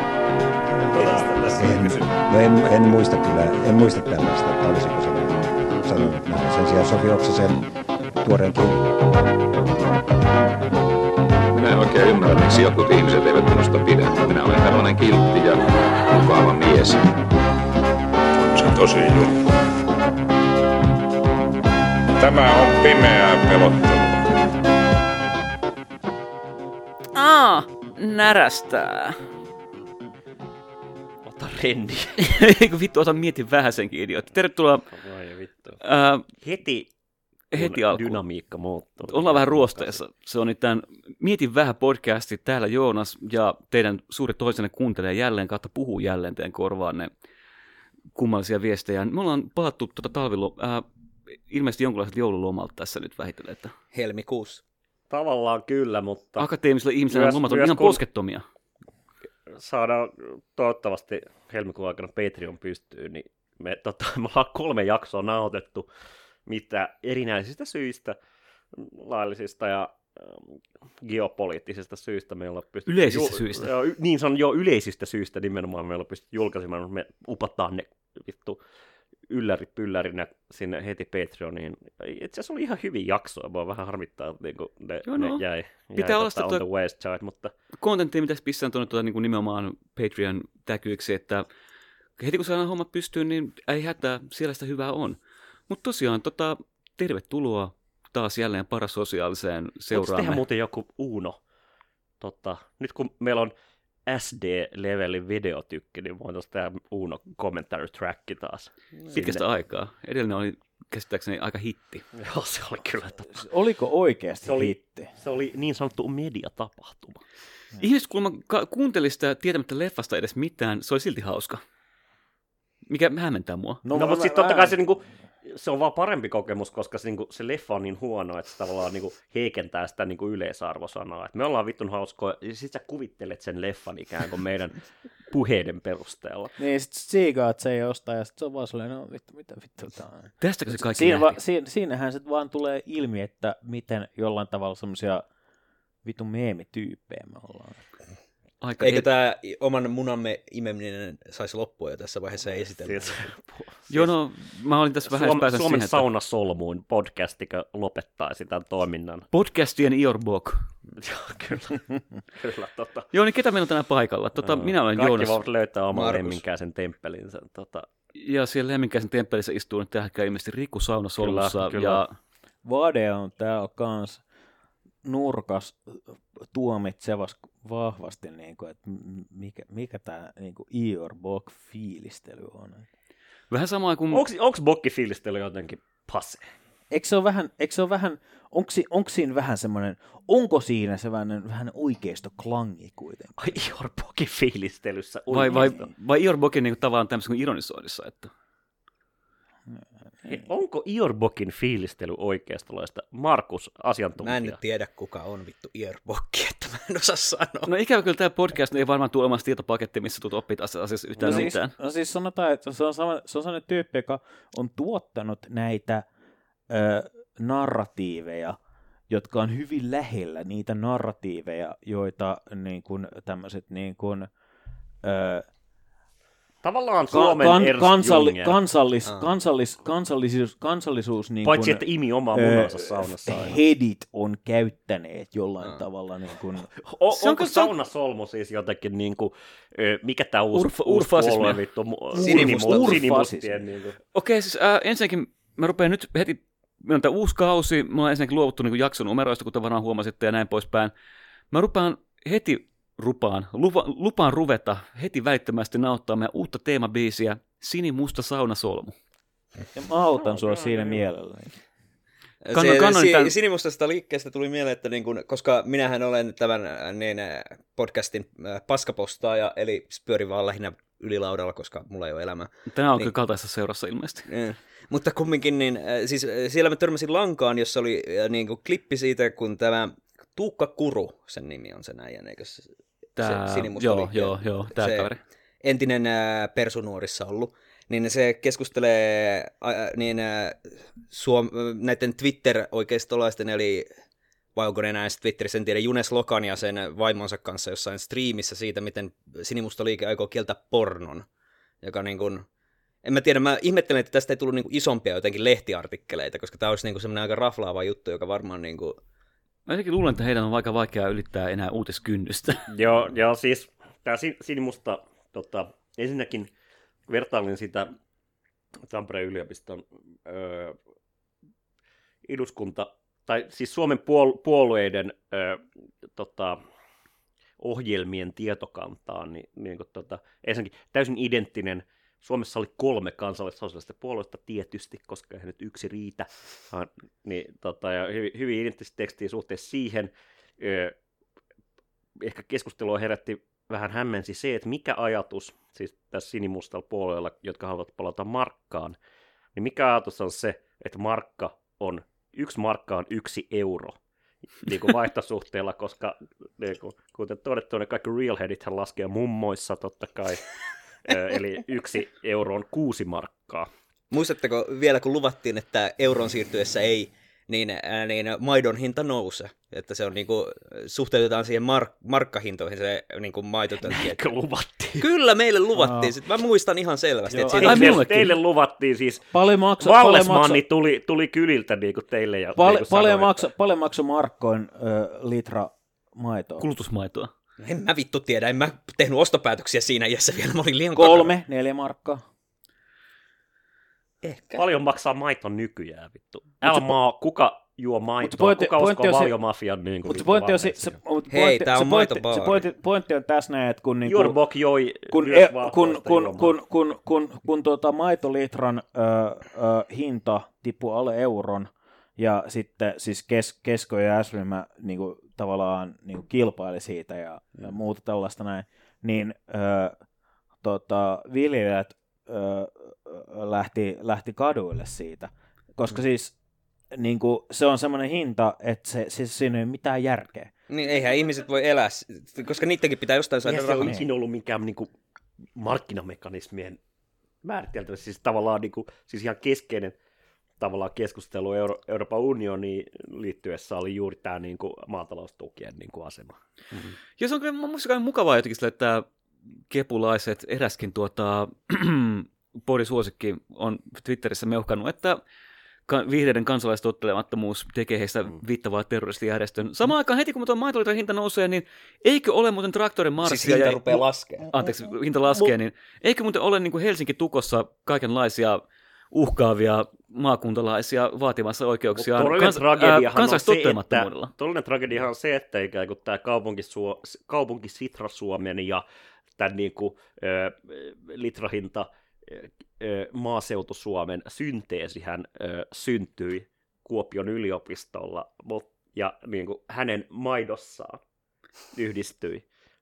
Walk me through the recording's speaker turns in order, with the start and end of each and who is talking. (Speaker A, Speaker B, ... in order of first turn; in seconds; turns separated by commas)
Speaker A: 0.9-2.1, Speaker B: 1.1-8.8, Speaker C: 11.5-17.0, Speaker C: 18.4-19.3, Speaker C: 22.2-24.3, Speaker D: 27.1-29.2, Speaker A: 31.3-32.2, Speaker D: 32.2-34.9, Speaker A: 34.9-35.8, Speaker D: 35.8-36.2, Speaker A: 36.4-36.9, Speaker D: 37.5-38.2, Speaker A: 37.5-40.0, Speaker D: 39.1-47.1, Speaker D: 48.1-50.9, Speaker D: 51.5-53.7, Speaker E: 53.9-54.6, Speaker A: 55.1-56.5, Speaker D: 56.4-58.4, Speaker A: 57.1-58.0, Speaker A: 59.6-65.9, Speaker A: 66.5-68.2, Speaker A: 68.7-78.6, Speaker D: 72.9-73.7, Speaker A: 79.3-87.5, Speaker D: 85.0-85.4, Speaker D: 86.0-86.6, Speaker D: 87.8-91.5, Speaker D: 92.2-95.2, Speaker D: 95.7-100.4, Speaker A: 99.9-101.4, Speaker A: 102.2-103.5, Speaker A: 104.1-109.4, Speaker D: 109.1-112.0, Speaker A: 112.2-113.5, Speaker F: 113.3-115.1, Speaker A: 114.5-117.2, Speaker D: 117.8-121.6, Speaker D: 122.9-123.8, Speaker F: 123.8-124.8, Speaker A: 123.9-136.5, Speaker F: 136.6-145.2, Speaker D: 140.4-141.4, Speaker F: 146.0-147.8, Speaker D: 148.6-149.1, Speaker E: 148.8-153.2, Speaker A: 152.8-154.1, Speaker D: 153.9-156.1, Speaker A: 155.1-159.3, Speaker D: 159.3-160.7, Speaker A: 161.0-163.1, Speaker D: 163.1-165.4, Speaker A: 164.4-167.9, Speaker E: 165.9-166.4, Speaker D: 168.2-172.1, Speaker A: 171.2-172.0, Speaker F: 172.6-174.2, Speaker F: 175.1-182.9, Speaker D: 183.5-184.2, Speaker A: 184.1-186.4, Speaker F: 186.9-193.6, Speaker A: 193.4-195.9, Speaker D: 195.3-198.3, Speaker A: 200.3-204.6, Speaker E: 204.2-207.7, Speaker D: 207.7-211.7, Speaker A: 211.2-211.5, Speaker F: 211.2-216.1, Speaker F: 216.7-218.6, Speaker F: 219.1-224.3, Speaker F: 225.0-225.5, Speaker A: 226.6-228.6, Speaker F: 227.1-236.7, Speaker A: 231.4-233.6, Speaker A: 236.8-244.0, Speaker D: 237.1-237.7, Speaker D: 240.5-241.6, Speaker E: 242.1-243.0, Speaker F: 242.2-243.7, Speaker D: 244.1-250.9, Speaker D: 251.5-258.9, Speaker F: 259.8-261.5, Speaker A: 260.3-261.0, Speaker E: 262.4-273.1, Speaker D: 262.5-263.4, Speaker D: 272.7-274.3, Speaker E: 274.3-285.1, Speaker D: 283.2-285.2, Speaker E: 285.6-293.9, Speaker E: 294.6-301.3, Speaker E: 301.8-302.5, Speaker E: 303.0-309.0, Speaker D: 309.7-312.7, Speaker A: 312.7-316.5, Speaker A: 317.1-317.9, Speaker A: 318.9-320.8, Speaker A: 322.3-325.6, Speaker A: 326.2-326.6, Speaker A: 327.6-340.9, Speaker A: 342.2-349.0, Speaker A: 349.6-354.0, Speaker A: 354.6-360.5, Speaker A: 361.1-363.7, Speaker E: 364.1-374.2, Speaker A: 373.9-375.1, Speaker E: 375.0-378.0, Speaker F: 375.8-376.1, Speaker F: 377.3-378.0, Speaker A: 377.6-379.3, Speaker D: 377.6-378.4, Speaker F: 379.3-380.6, Speaker A: 379.8-383.5, Speaker F: 382.6-386.7, Speaker D: 386.6-387.3, Speaker E: 387.6-391.3, Speaker F: 390.9-392.2, Speaker E: 394.2-394.6, Speaker A: 394.5-401.0, Speaker F: 396.6-396.9, Speaker F: 398.2-399.4, Speaker F: 400.1-404.4, Speaker E: 401.3-402.6, Speaker A: 404.1-406.5, Speaker F: 405.1-420.0, Speaker F: 420.6-426.4, Speaker F: 426.9-430.5, Speaker E: 430.7-434.0, Speaker A: 433.4-434.9, Speaker F: 433.8-434.1, Speaker A: 435.6-436.8, Speaker A: 437.4-439.9, Speaker A: 440.6-446.9, Speaker D: 447.2-449.1, Speaker D: 449.7-455.2, Speaker D: 455.9-474.3, Speaker E: 463.2-464.5, Speaker A: 471.9-478.8, Speaker A: 479.4-491.0, Speaker A: 491.7-492.4